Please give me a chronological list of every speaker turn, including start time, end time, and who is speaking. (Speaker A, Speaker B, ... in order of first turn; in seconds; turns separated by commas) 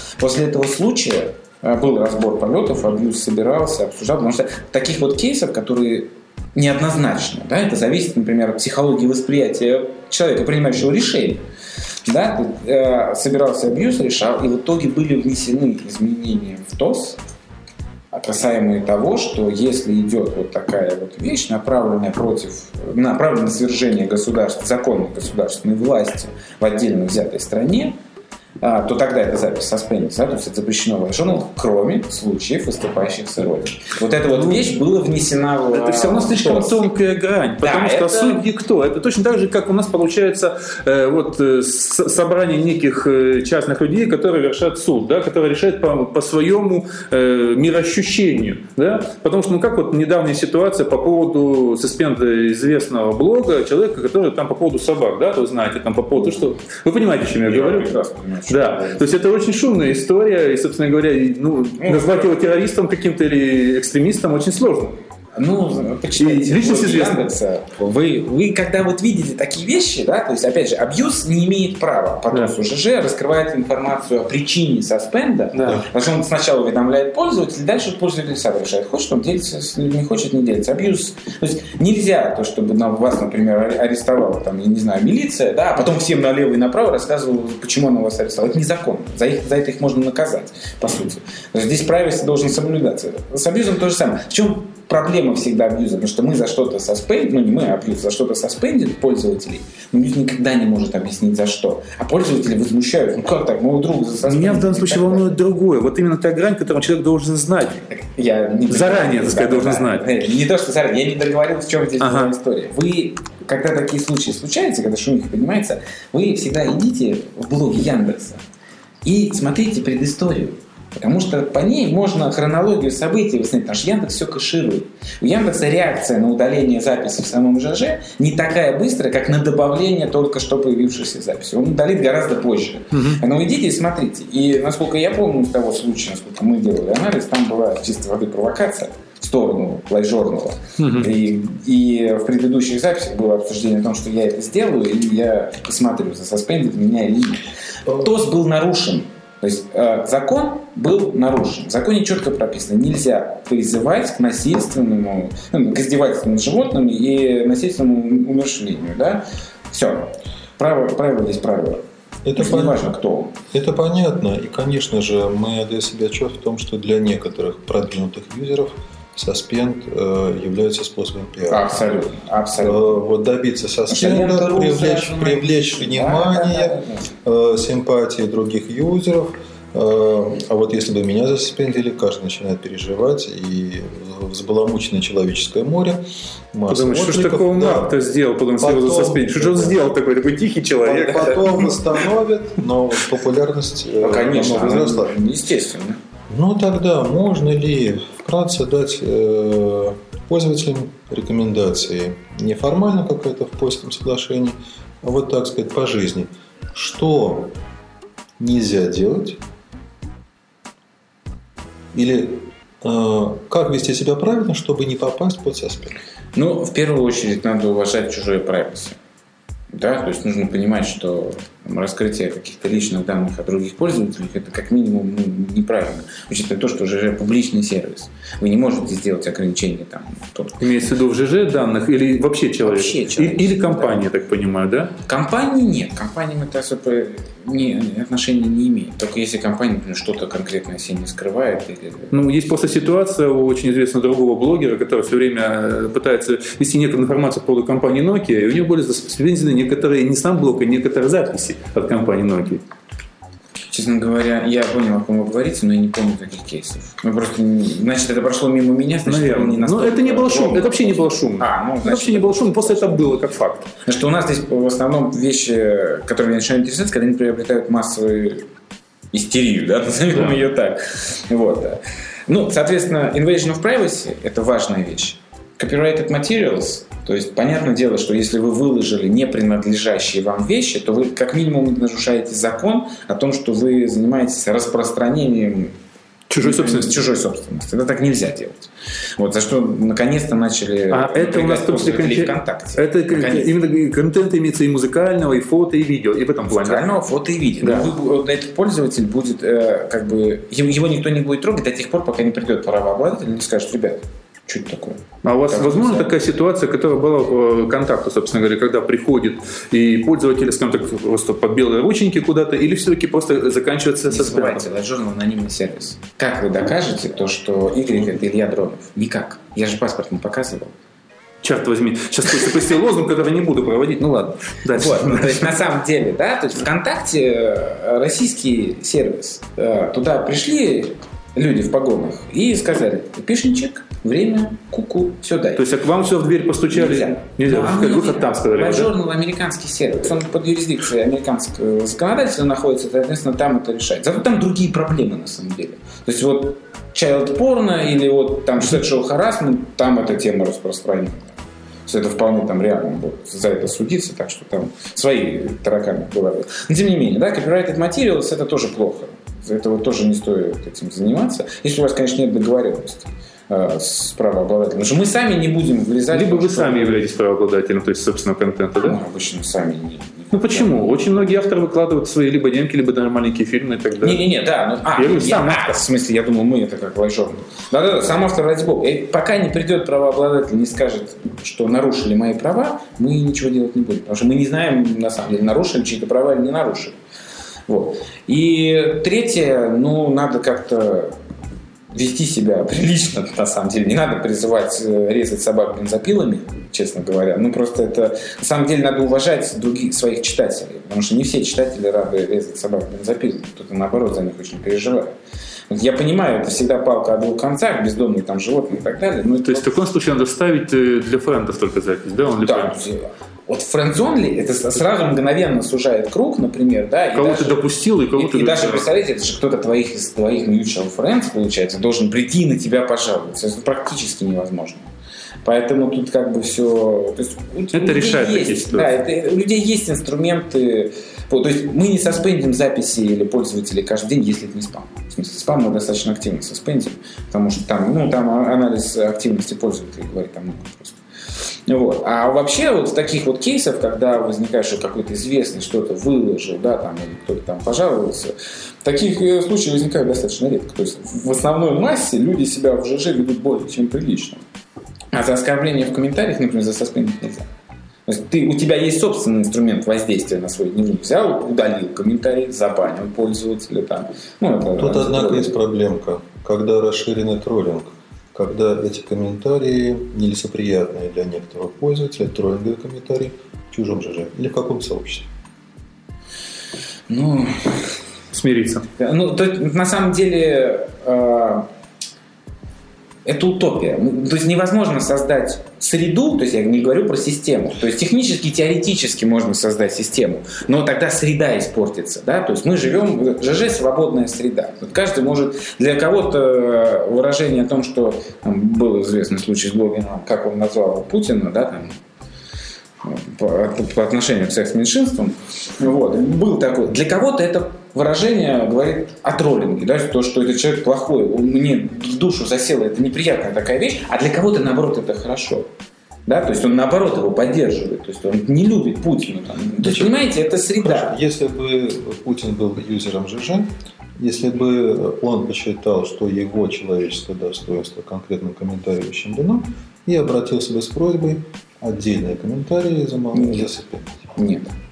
Speaker A: 0.2-11.4, Speaker A: 12.1-17.2, Speaker A: 18.1-27.9, Speaker A: 28.6-36.9, Speaker B: 34.3-34.6, Speaker B: 35.7-57.9, Speaker A: 37.6-38.4, Speaker A: 56.1-56.5, Speaker A: 57.4-59.1, Speaker B: 58.5-64.9, Speaker A: 61.8-62.4, Speaker A: 65.4-105.4, Speaker B: 66.2-67.3, Speaker B: 75.5-75.8, Speaker B: 104.2-107.8, Speaker A: 107.9-118.4, Speaker B: 108.7-110.0, Speaker B: 112.0-112.3, Speaker A: 119.0-161.8, Speaker B: 132.9-133.2, Speaker B: 140.8-141.1, Speaker C: 162.2-162.8, Speaker A: 162.4-163.3, Speaker C: 163.5-171.7, Speaker A: 171.5-173.0, Speaker C: 172.6-188.0, Speaker A: 173.9-177.1, Speaker B: 186.7-191.9, Speaker C: 188.6-189.9, Speaker C: 190.8-195.2, Speaker A: 194.0-196.0, Speaker C: 196.3-207.5, Speaker C: 208.4-209.4, Speaker C: 211.9-216.0, Speaker A: 216.3-219.0, Speaker A: 219.7-230.6, Speaker B: 230.6-234.9, Speaker A: 232.6-234.1, Speaker A: 235.0-242.1, Speaker B: 242.1-252.6, Speaker A: 253.7-263.3, Speaker B: 259.1-263.7, Speaker A: 263.8-268.4, Speaker A: 269.1-285.7, Speaker B: 270.1-270.4, Speaker B: 286.3-286.9, Speaker A: 286.4-288.7, Speaker A: 289.2-293.6, Speaker B: 290.9-296.9, Speaker A: 296.5-306.1, Speaker B: 297.6-297.9, Speaker B: 305.2-314.6, Speaker A: 314.1-320.7, Speaker B: 321.4-325.5, Speaker A: 324.7-335.6, Speaker B: 335.6-338.9, Speaker A: 336.7-367.1, Speaker B: 366.1-369.0, Speaker A: 368.8-371.2, Speaker B: 370.3-374.2, Speaker A: 374.0-387.0, Speaker B: 375.0-375.8, Speaker A: 387.7-391.1, Speaker A: 391.9-405.1, Speaker A: 405.7-409.7, Speaker B: 409.4-412.8, Speaker A: 412.4-417.6, Speaker B: 417.1-418.9, Speaker A: 418.1-424.9, Speaker A: 425.4-441.0, Speaker B: 427.7-428.9, Speaker A: 441.7-454.4, Speaker A: 455.1-457.4, Speaker A: 458.1-465.5, Speaker C: 464.8-475.3, Speaker A: 477.1-477.9, Speaker B: 478.3-478.9, Speaker A: 479.0-481.7, Speaker A: 483.2-501.9, Speaker A: 503.0-515.7, Speaker A: 516.3-521.1, Speaker C: 519.8-520.3, Speaker C: 520.8-534.3, Speaker A: 533.3-533.7, Speaker A: 534.3-534.7